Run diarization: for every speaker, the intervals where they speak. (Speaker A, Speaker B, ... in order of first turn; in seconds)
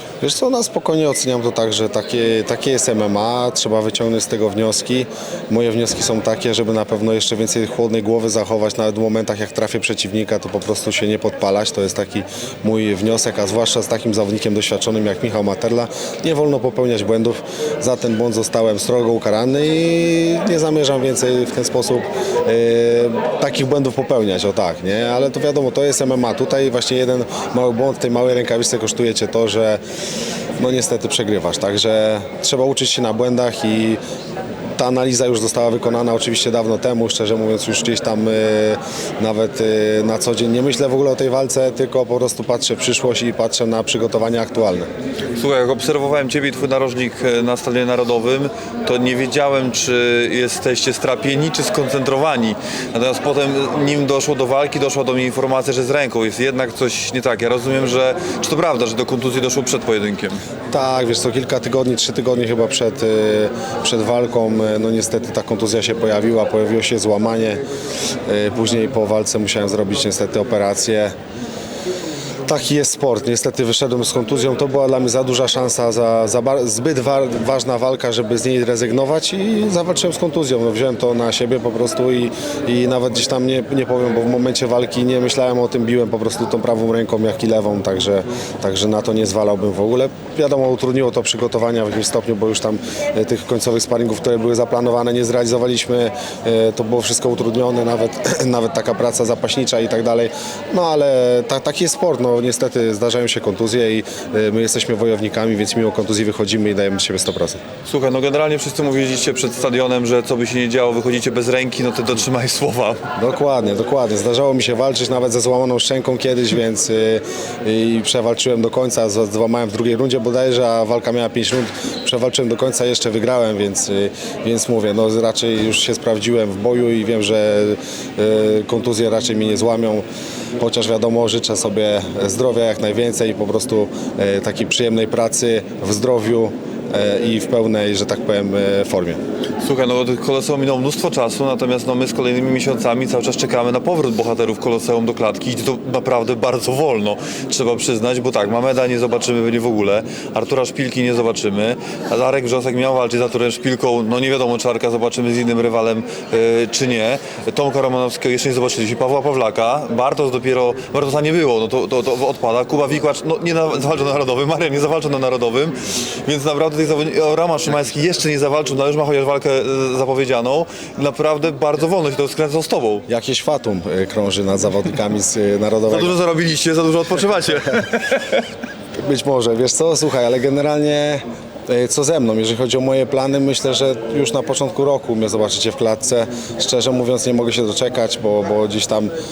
Speaker A: 0.2-29.8, 30.6-34.0, 34.8-44.9, 60.7-67.6, 68.3-71.1, 72.5-107.6, 113.2-130.1, 130.6-139.2, 173.1-176.2, 179.0-189.1
Speaker B: 45.4-60.4, 107.9-113.0, 139.6-173.1, 175.9-178.4